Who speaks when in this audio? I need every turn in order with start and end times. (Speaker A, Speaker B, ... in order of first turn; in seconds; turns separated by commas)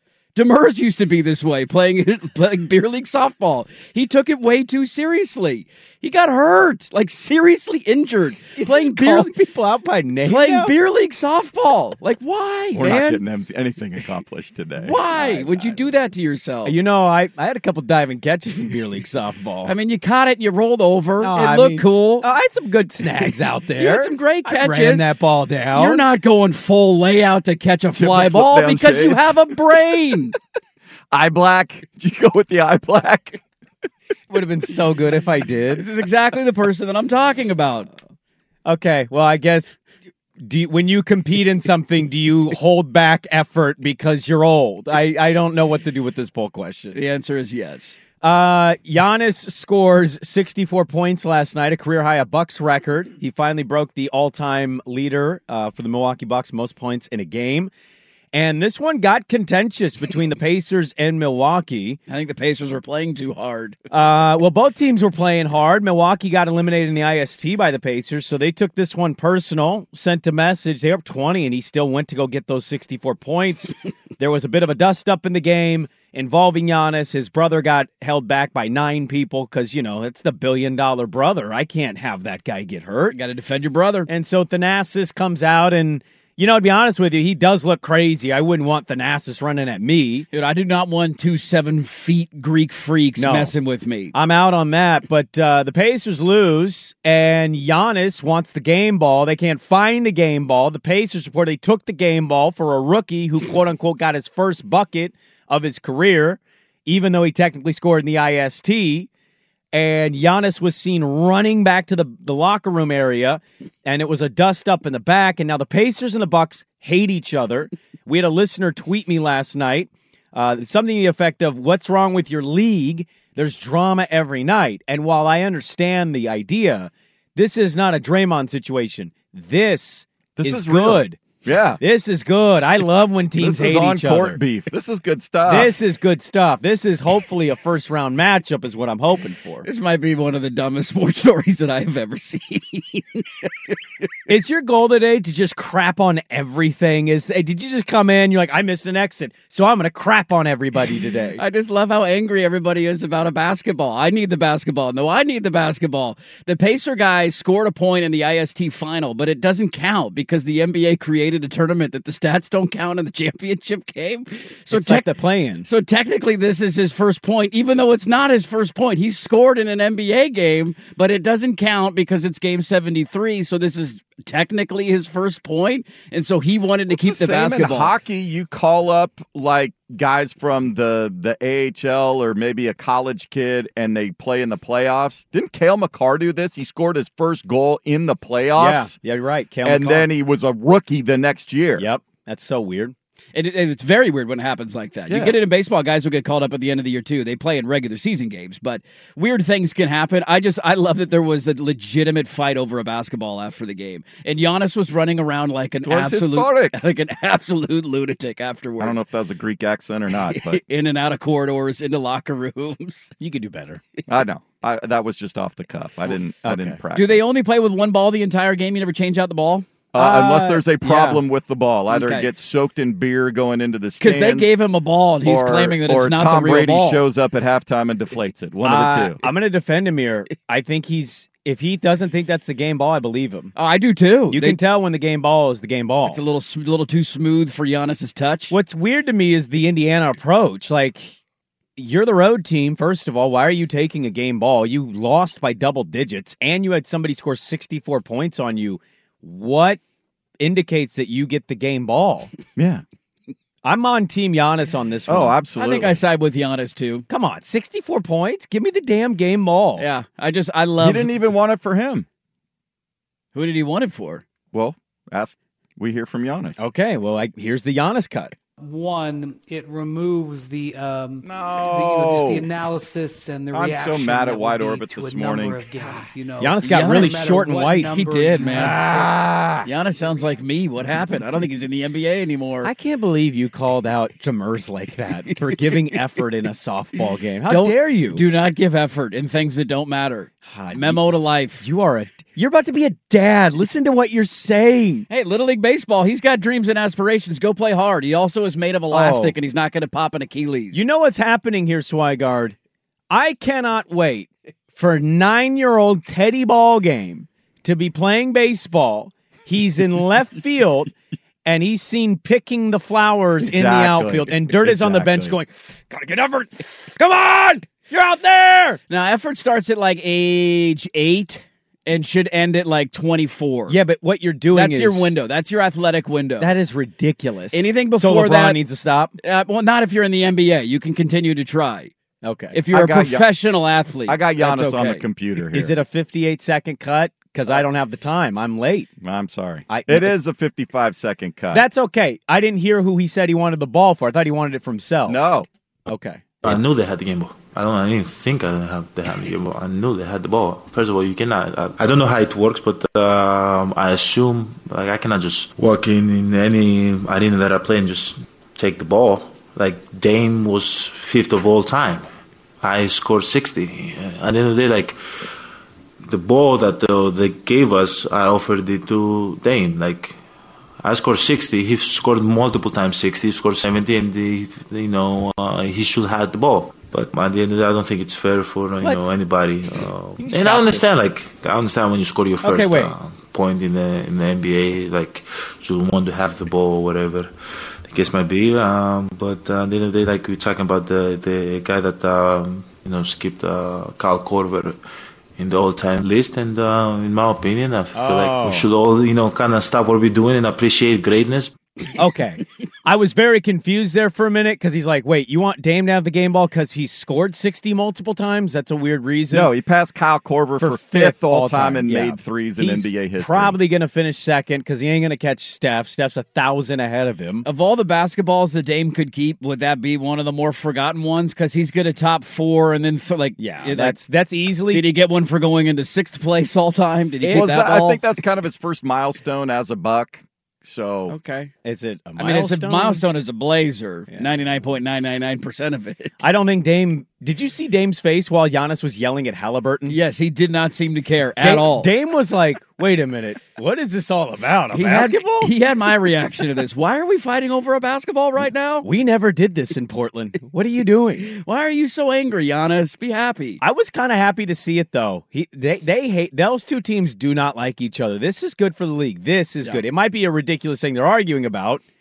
Speaker A: 0.3-9.3, Speaker B: 8.6-10.7, Speaker A: 10.3-13.2, Speaker C: 12.8-15.7, Speaker A: 14.8-16.8, Speaker B: 16.6-19.7, Speaker A: 19.7-22.3, Speaker B: 21.2-26.0, Speaker A: 23.8-25.1, Speaker A: 25.7-30.4, Speaker C: 27.9-29.4, Speaker C: 31.1-33.4, Speaker B: 34.3-35.9, Speaker A: 35.7-37.9, Speaker B: 38.7-39.8, Speaker B: 40.4-47.0, Speaker A: 46.9-48.0, Speaker B: 48.2-57.7, Speaker B: 58.3-62.0, Speaker A: 62.1-63.8, Speaker B: 63.9-83.2, Speaker A: 83.1-84.1, Speaker B: 84.1-90.3, Speaker A: 90.3-94.1, Speaker B: 93.2-93.5, Speaker B: 94.1-109.1, Speaker B: 109.7-131.2, Speaker C: 130.4-131.8, Speaker B: 131.8-134.4, Speaker C: 133.4-135.8, Speaker B: 135.5-139.7, Speaker A: 139.6-143.8, Speaker B: 144.3-151.4, Speaker A: 151.4-165.1, Speaker B: 164.7-165.7, Speaker A: 165.7-177.9, Speaker C: 176.9-189.0, Speaker B: 188.6-190.1, Speaker C: 189.6-191.9, Speaker B: 191.8-192.9, Speaker A: 193.3-209.0, Speaker C: 195.1-195.4, Speaker C: 205.8-206.8, Speaker C: 208.8-210.6, Speaker A: 210.2-213.1, Speaker B: 213.2-213.8, Speaker C: 214.1-217.3, Speaker B: 216.4-216.8, Speaker A: 216.9-219.7, Speaker C: 219.9-224.5, Speaker B: 219.9-221.2, Speaker A: 221.9-222.3, Speaker A: 224.0-227.0, Speaker C: 225.2-229.2, Speaker B: 228.6-233.5, Speaker A: 233.6-234.6, Speaker B: 234.3-236.2, Speaker A: 236.1-238.6, Speaker B: 238.5-241.2, Speaker B: 241.8-249.8, Speaker B: 250.4-252.3, Speaker C: 252.6-252.8, Speaker B: 253.6-255.4, Speaker C: 255.1-256.0, Speaker A: 255.6-257.1, Speaker B: 257.1-259.9, Speaker A: 259.8-261.1, Speaker C: 260.8-262.1, Speaker A: 263.3-264.2, Speaker C: 264.5-266.6, Speaker B: 266.6-268.3, Speaker D: 268.6-279.3, Speaker C: 271.2-272.5, Speaker C: 273.5-275.7, Speaker B: 276.4-279.7, Speaker A: 276.6-277.2, Speaker A: 277.9-278.9, Speaker A: 279.6-282.7, Speaker B: 282.6-288.2, Speaker A: 287.5-291.6, Speaker B: 290.5-291.0, Speaker B: 291.6-295.1, Speaker A: 295.1-300.8, Speaker B: 298.9-299.4, Speaker B: 300.7-302.6, Speaker B: 303.1-310.9, Speaker B: 311.4-318.8, Speaker C: 313.4-315.4, Speaker A: 318.9-323.8, Speaker B: 323.7-325.1, Speaker A: 324.5-326.5, Speaker B: 326.4-329.1, Speaker A: 327.5-328.6, Speaker A: 329.2-331.9, Speaker B: 332.2-332.6, Speaker A: 332.5-335.1, Speaker C: 332.7-333.3, Speaker C: 334.1-335.8, Speaker B: 335.5-338.9, Speaker C: 339.0-341.6, Speaker B: 339.7-340.2, Speaker B: 341.5-345.2, Speaker C: 345.1-345.5, Speaker B: 345.9-346.5, Speaker E: 346.4-362.1, Speaker E: 362.6-365.0, Speaker E: 366.1-370.2, Speaker E: 370.8-387.3, Speaker B: 378.8-379.1, Speaker B: 380.2-380.9, Speaker B: 382.4-382.9, Speaker E: 387.9-394.8, Speaker E: 395.4-401.5, Speaker B: 397.9-398.7, Speaker B: 402.0-409.5, Speaker C: 409.3-413.6, Speaker B: 410.6-417.5, Speaker A: 417.4-424.0, Speaker B: 423.4-424.9, Speaker A: 424.7-428.0, Speaker B: 427.2-427.5, Speaker C: 427.3-431.1, Speaker A: 431.1-431.5, Speaker B: 431.6-433.0, Speaker A: 432.2-436.1, Speaker B: 436.2-440.0, Speaker A: 439.9-441.9, Speaker B: 441.4-445.5, Speaker A: 444.7-448.9, Speaker B: 448.8-451.3, Speaker A: 451.3-453.6, Speaker B: 453.6-461.8